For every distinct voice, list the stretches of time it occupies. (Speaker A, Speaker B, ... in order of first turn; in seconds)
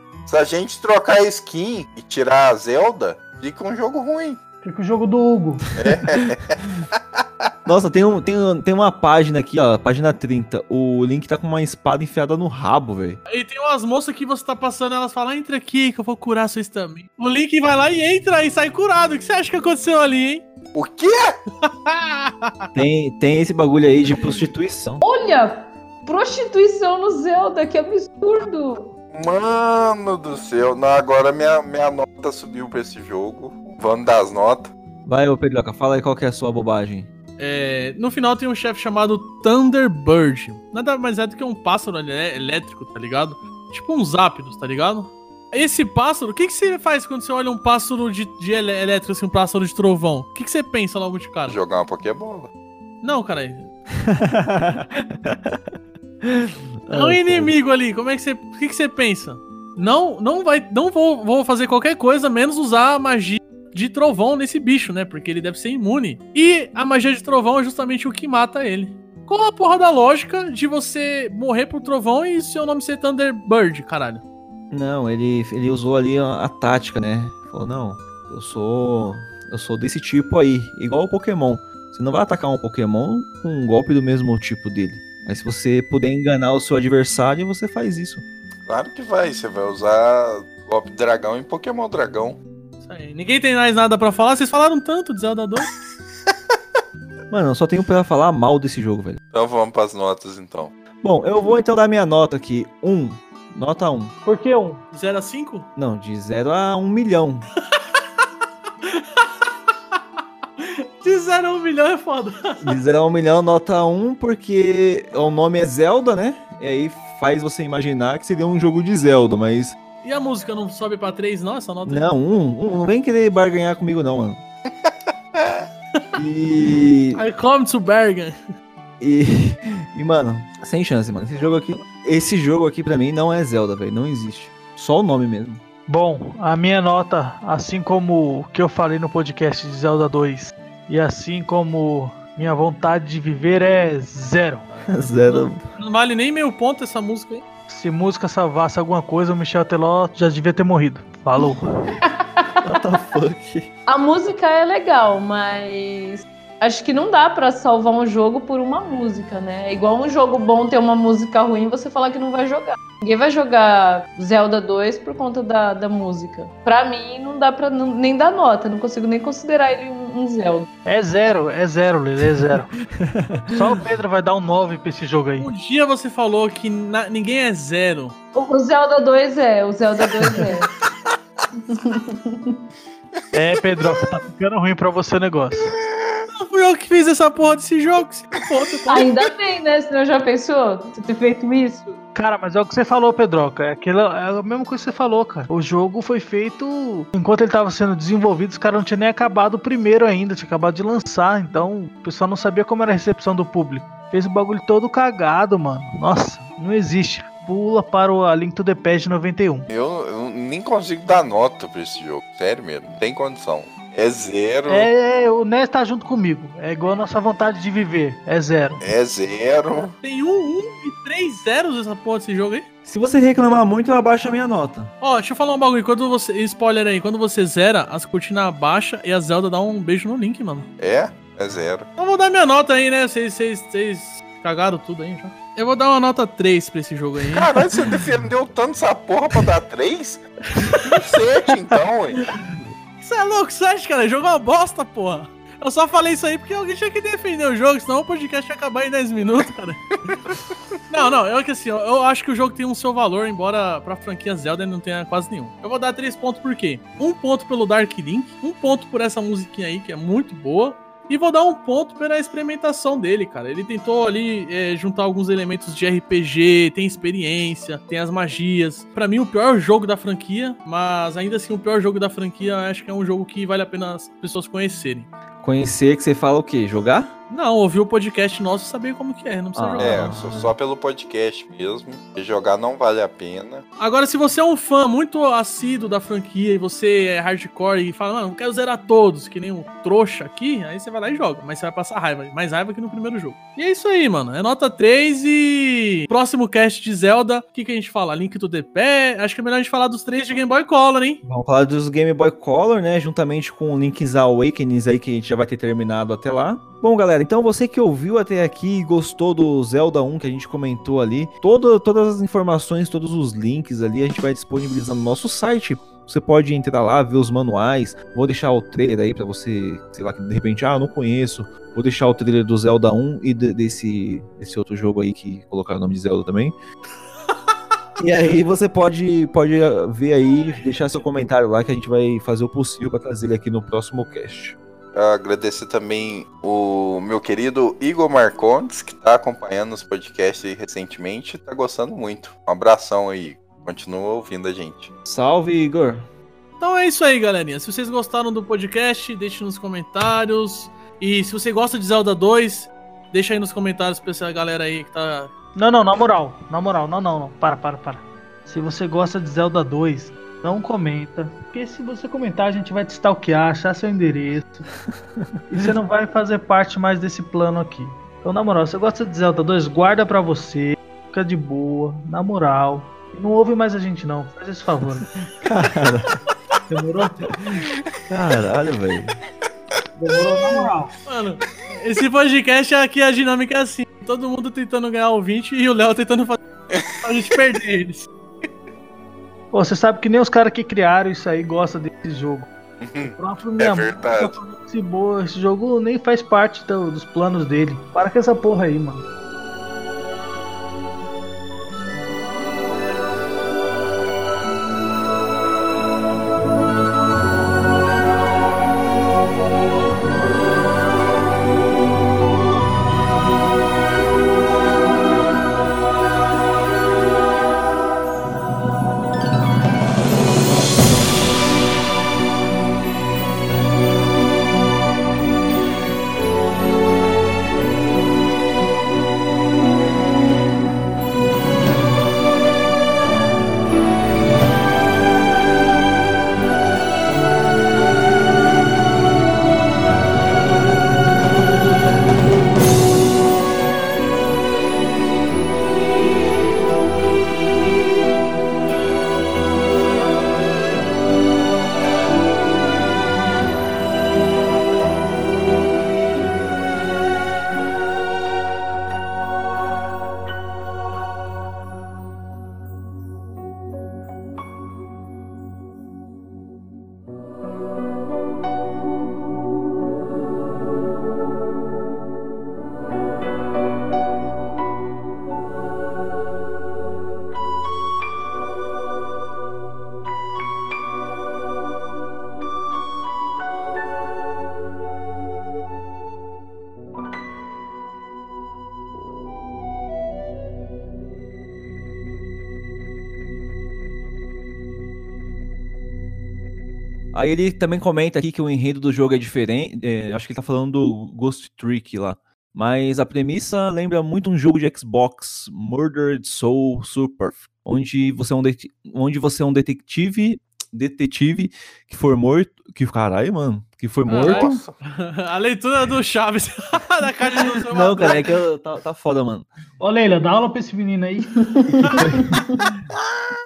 Speaker A: 0.3-4.4, 5.8-6.6, 20.7-21.3, 29.1-34.7, 51.5-52.5, 88.7-92.4, 99.3-100.7, 125.4-125.6, 209.7-214.9, 218.8-219.9, 230.8-231.9, 237.3-240.2, 240.9-242.2, 279.8-283.6, 334.9-344.9, 386.7-386.9, 392.8-394.4, 514.1-514.7
Speaker B: 4.6-5.6, 104.2-104.8, 135.9-144.7, 147.7-151.9, 170.8-172.8, 173.5-175.5, 183.3-185.7, 192.1-209.7, 214.7-218.8, 355.6-364.7, 365.5-375.1, 376.7-377.3, 379.9-380.9, 389.5-392.5, 393.0-399.0, 519.8-522.0
Speaker C: 7.6-13.2, 22.7-25.0, 35.0-37.1, 54.0-57.5, 74.7-88.2, 97.3-99.2, 101.0-104.1, 105.8-107.5, 112.6-119.8, 121.8-124.4, 126.1-127.2, 129.0-135.6, 144.9-145.7, 152.6-153.7, 173.0-173.7, 222.8-224.9, 275.4-277.1, 279.6-280.5, 301.2-326.5, 328.0-334.6, 345.1-346.1, 375.3-376.2, 377.4-379.2, 497.1-514.6, 517.7-519.5, 521.7-522.6
Speaker D: 13.3-20.4, 21.6-22.7, 37.4-51.6, 53.0-53.7, 56.9-74.2, 92.8-95.7, 104.9-105.7, 108.8-109.2, 110.6-112.8, 120.0-122.1, 127.1-128.3, 144.7-147.4, 175.4-178.1, 186.4-189.1, 220.0-222.7, 225.0-230.7, 232.0-237.5, 243.0-249.8, 250.9-275.1, 277.3-280.1, 283.8-301.2, 346.6-355.3, 381.1-386.4, 387.0-388.1, 514.1-518.2
Speaker E: 25.0-28.9, 152.0-152.8, 153.9-170.7, 178.3-180.7, 181.7-182.6, 188.9-192.0, 521.4-522.6